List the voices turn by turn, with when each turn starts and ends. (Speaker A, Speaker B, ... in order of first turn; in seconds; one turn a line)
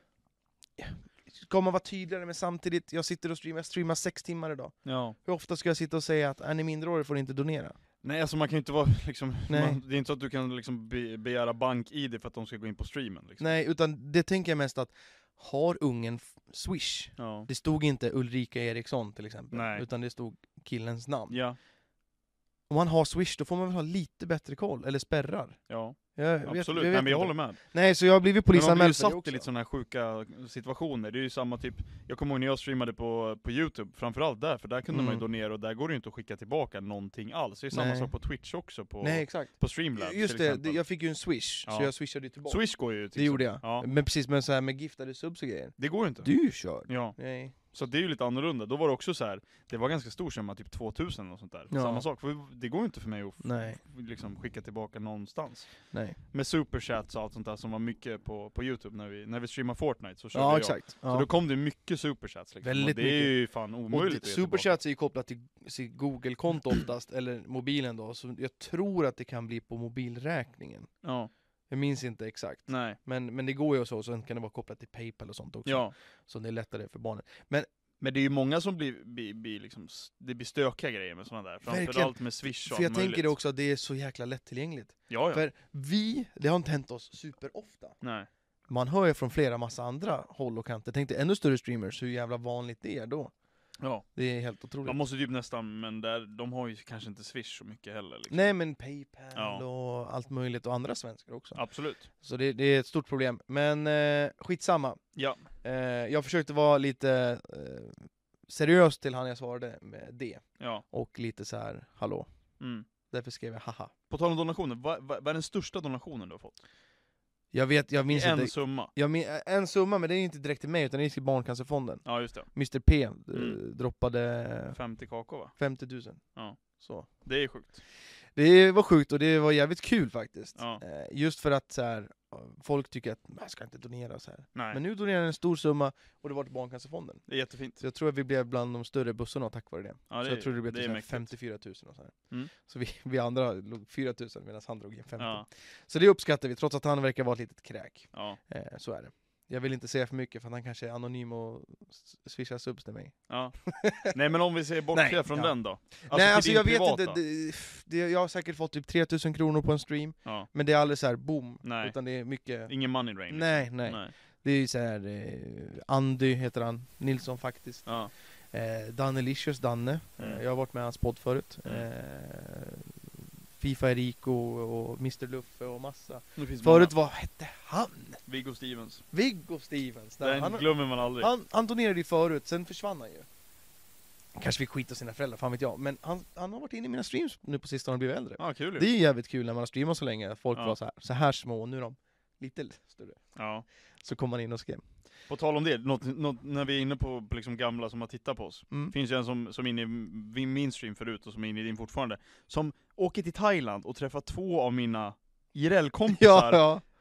Speaker A: 0.8-7.8
Speaker B: 4.8-5.2
Speaker B: 8.0-13.4
Speaker A: 9.5-9.8
Speaker A: 13.4-21.4
Speaker B: 17.2-17.5
Speaker B: 19.5-19.9
Speaker B: 21.3-21.6
Speaker A: 22.7-25.6
Speaker B: 25.7-27.6
Speaker A: 26.1-29.4
Speaker B: 28.5-40.8
Speaker A: 34.9-35.2
Speaker A: 37.7-38.1
Speaker A: 39.0-42.6
Speaker B: 41.7-41.9
Speaker B: 42.5-43.9
Speaker A: 43.1-47.5
Speaker B: 45.8-46.4
Speaker B: 46.9-47.2
Speaker B: 47.7-55.7
Speaker A: 51.7-52.0
Speaker A: 53.4-53.8
Speaker A: 55.9-56.2
Speaker B: 56.3-64.7
Speaker A: 60.3-61.3
Speaker A: 62.6-63.4
Speaker A: 63.9-70.9
Speaker B: 71.0-71.3
Speaker A: 71.7-77.7
Speaker B: 72.7-73.0
Speaker B: 75.7-75.9
Speaker B: 78.0-83.3
Speaker A: 81.7-88.0
Speaker B: 85.1-85.4
Speaker B: 88.0-88.3
Speaker A: 88.7-93.3
Speaker B: 93.8-94.1
Speaker A: 94.2-95.0
Speaker B: 94.8-98.5
Speaker A: 98.3-101.6
Speaker B: 99.4-99.6
Speaker B: 101.6-102.1
Speaker A: 102.1-105.0
Speaker B: 105.2-105.4
Speaker A: 105.6-112.3
Speaker B: 110.6-110.8
Speaker B: 112.6-112.9
Speaker A: 113.1-113.9
Speaker B: 114.1-116.6
Speaker A: 117.5-124.8
Speaker B: 118.1-118.9
Speaker B: 122.0-122.5
Speaker B: 123.3-123.6
Speaker B: 124.7-125.5
Speaker A: 125.6-126.2
Speaker A: 126.8-127.1
Speaker B: 127.2-127.8
Speaker A: 128.4-137.3
Speaker B: 137.3-137.8
Speaker A: 137.8-154.2
Speaker B: 140.1-141.3
Speaker B: 145.2-145.5
Speaker B: 148.1-148.4
Speaker B: 153.3-153.6
Speaker B: 154.1-157.2
Speaker A: 154.9-162.7
Speaker B: 161.6-161.9
Speaker B: 162.7-164.1
Speaker A: 163.3-167.9
Speaker B: 167.9-168.1
Speaker A: 168.5-173.0
Speaker A: 173.6-178.2
Speaker B: 176.4-176.9
Speaker B: 178.3-179.0
Speaker A: 179.1-183.3
Speaker B: 180.2-181.3
Speaker A: 184.4-193.2
Speaker B: 188.4-188.9
Speaker B: 193.4-193.7
Speaker A: 194.0-194.8
Speaker B: 195.3-206.7
Speaker A: 206.1-206.8